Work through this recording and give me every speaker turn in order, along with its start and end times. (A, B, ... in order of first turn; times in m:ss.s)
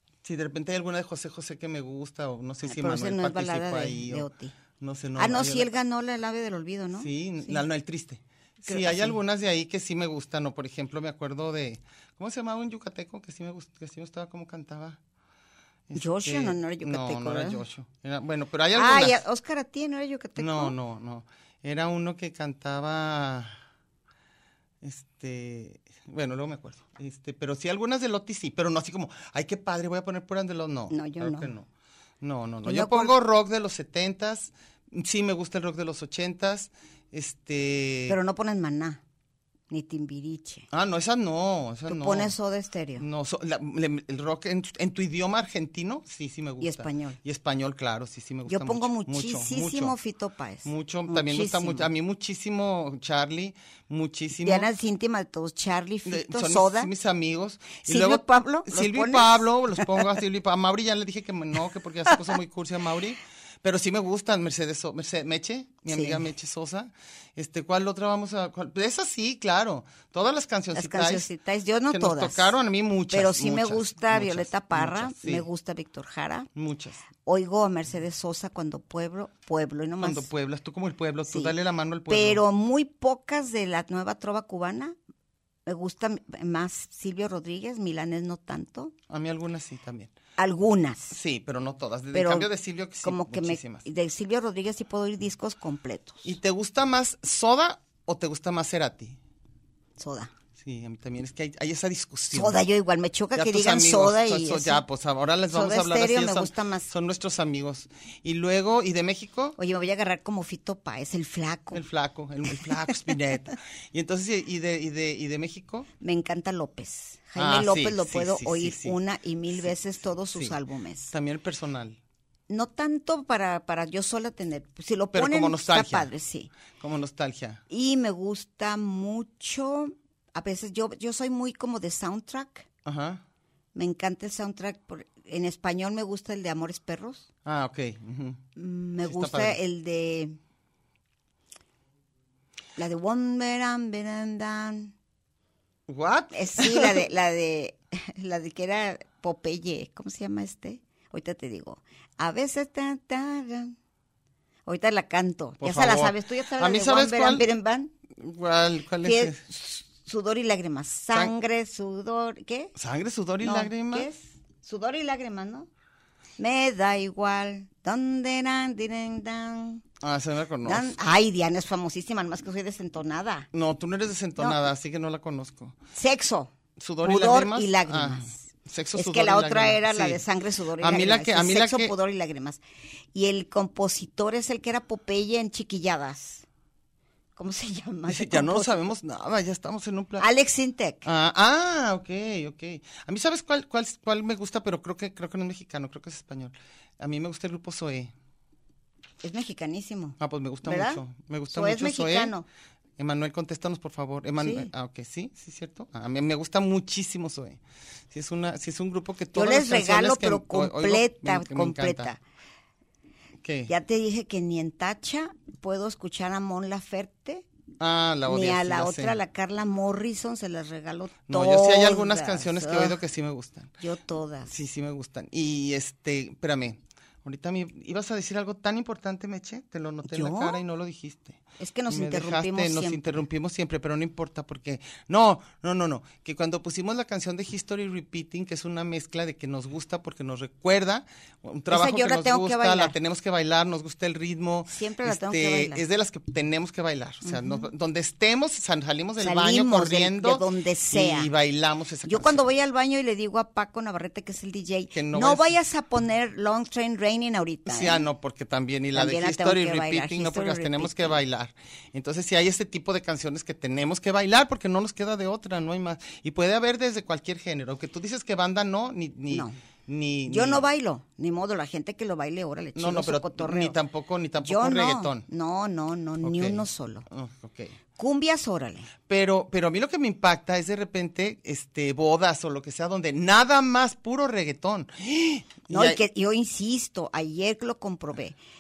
0:00.2-0:04.3 A
0:02.7-0:04.5 B
0:04.8-0:05.7 A
0:05.2-0:07.6 B
0:07.0-0:15.0 A
0:08.6-0:09.2 B
0:15.9-0:19.2 A
0:15.9-0:17.6 B
0:18.7-0:20.8 B
0:20.4-0:23.6 A
0:24.8-0:31.7 A
0:30.9-0:31.5 B
0:32.2-0:38.2 A
0:32.6-0:33.1 B
0:38.1-0:39.0 B
0:39.7-0:40.7 B
0:40.7-0:42.3 A
0:41.9-0:43.0 B
0:43.0-0:50.0 A
0:46.6-0:47.2 B
0:48.5-0:51.9 B
0:50.6-0:54.7 A
0:54.4-0:56.9 B
0:56.1-1:11.3 A
0:57.8-1:00.0 B
1:05.9-1:06.3 B
1:10.7-1:12.5 B
1:11.9-1:15.5 A
1:13.1-1:16.5 B
1:16.6-1:17.0 A
1:17.2-1:20.3 B
1:20.0-1:22.4 A
1:21.3-1:21.5 B
1:22.1-1:25.0 B
1:25.7-1:28.9 B
1:29.1-1:30.1 A
1:30.4-1:31.2 B
1:31.1-1:33.8 A
1:32.1-1:32.5 B
1:33.0-1:36.3 B
1:36.2-1:39.2 A
1:40.0-1:40.3 B
1:40.6-1:42.6 A
1:42.3-1:44.8 B
1:43.4-1:49.6 A
1:45.5-1:46.9 B
1:49.6-1:51.8 B
1:51.7-1:55.9 A
1:56.0-2:01.1 B
1:57.4-1:59.0 A
1:59.5-2:00.6 A
2:01.1-2:02.0 A
2:02.5-2:06.5 B
2:05.1-2:06.1 A
2:06.7-2:07.6 A
2:07.7-2:12.7 B
2:12.8-2:13.2 A
2:13.8-2:17.3 B
2:17.4-2:18.4 A
2:18.6-2:20.4 B
2:19.0-2:19.6 A
2:22.8-2:24.9 B
2:25.9-2:27.0 A
2:26.3-2:33.7 B
2:34.7-2:37.9 B
2:35.6-2:37.5 A
2:38.2-2:39.4 A
2:39.0-2:42.7 B
2:42.8-2:44.1 A
2:43.4-2:45.7 B
2:46.4-2:49.8 B
2:50.0-2:51.0 A
2:50.6-2:53.5 B
2:53.5-2:55.8 A
2:55.9-3:02.6 B
2:56.8-3:00.2 A
3:00.8-3:01.9 A
3:03.1-3:06.4 B
3:07.4-3:08.8 B
3:08.1-3:10.3 A
3:10.2-3:11.1 B
3:11.0-3:18.1 A
3:19.2-3:22.5 B
3:20.2-3:22.3 A
3:23.0-3:32.1 A
3:24.4-3:24.7 B
3:29.4-3:32.2 B
3:33.4-3:33.7 A
3:33.7-3:37.5 B
3:37.8-3:39.2 A
3:38.2-3:43.0 B
3:41.3-3:43.8 A
3:43.8-3:44.5 B
3:44.5-4:12.4 A
3:50.0-3:50.6 B
3:51.6-3:53.2 B
4:01.7-4:03.0 B
4:04.7-4:05.8 B
4:07.2-4:07.7 B
4:09.2-4:11.3 B
4:12.0-4:18.1 B
4:14.9-4:15.6 A
4:17.7-4:30.7 A
4:18.9-4:21.2 B
4:29.3-4:29.6 B
4:30.3-4:33.8 B
4:32.8-4:35.3 A
4:34.4-4:37.1 B
4:36.2-4:37.8 A
4:38.0-4:38.9 B
4:39.1-4:46.0 A
4:45.7-4:48.4 B